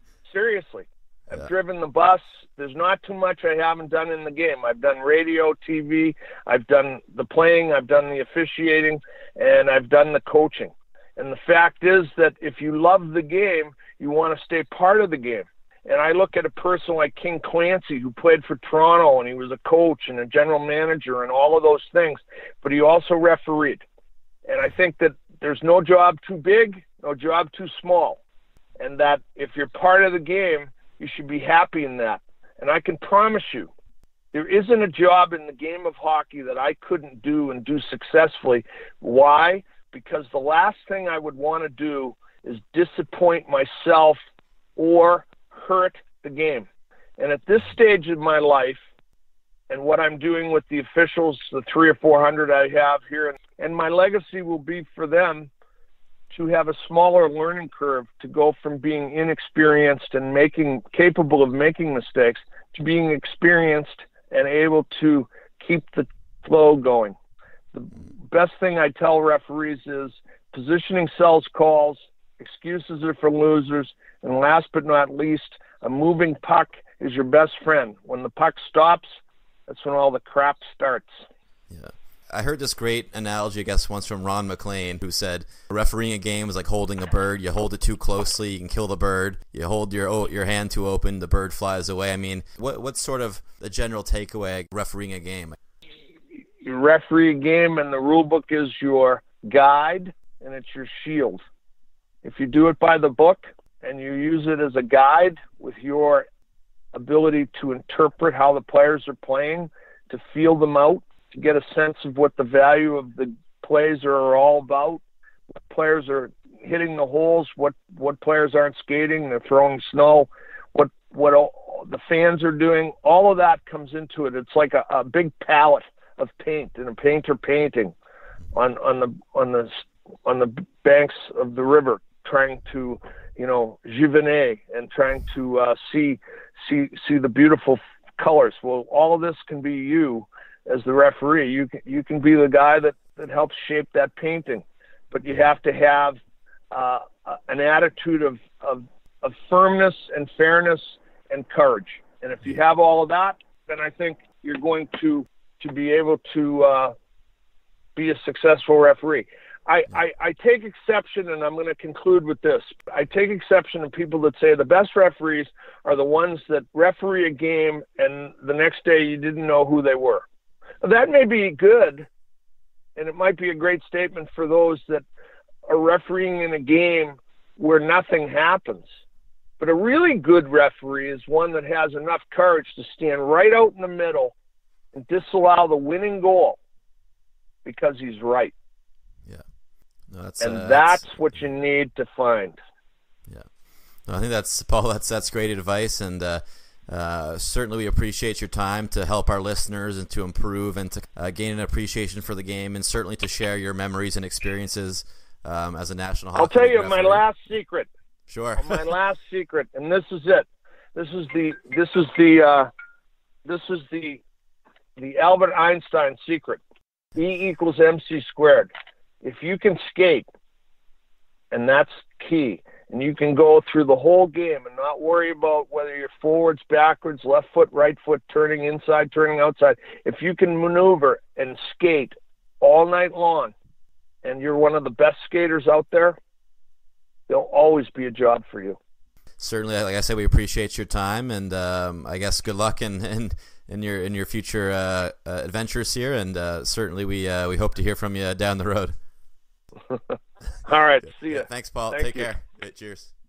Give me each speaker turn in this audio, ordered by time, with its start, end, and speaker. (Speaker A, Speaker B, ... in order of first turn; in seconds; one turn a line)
Speaker A: 0.3-23.8
Speaker A: 24.5-28.2
Speaker A: 28.8-33.7
Speaker A: 34.3-44.2
Speaker A: 44.8-46.7
Speaker A: 47.2-48.8
Speaker A: 49.7-55.5
Speaker A: 56.3-67.2
Speaker A: 67.7-81.3
Speaker B: 81.7-95.6
Speaker A: 96.6-101.4
Speaker A: 102.2-106.3
Speaker A: 106.9-115.0
Speaker A: 115.7-127.9
Speaker A: 128.5-146.2
Speaker A: 146.7-156.9
Speaker A: 158.0-170.2
Speaker A: 170.8-172.1
Speaker A: 173.0-175.0
Speaker A: 175.7-178.9
Speaker A: 179.6-184.3
Speaker A: 184.9-186.6
Speaker A: 187.7-188.5
Speaker B: 190.1-191.1
Speaker A: 190.4-192.6
Speaker B: 194.1-207.2
Speaker A: 206.4-207.9
Speaker B: 208.3-208.8
Speaker A: 208.6-212.7
Speaker A: 213.5-214.2
Speaker A: 215.0-216.6
Speaker A: 217.2-218.7
Speaker A: 219.2-220.3
Speaker A: 221.5-233.5
Speaker A: 234.2-236.2
Speaker A: 237.3-238.8
Speaker B: 239.4-249.0
Speaker A: 250.7-252.3
Speaker B: 251.1-253.1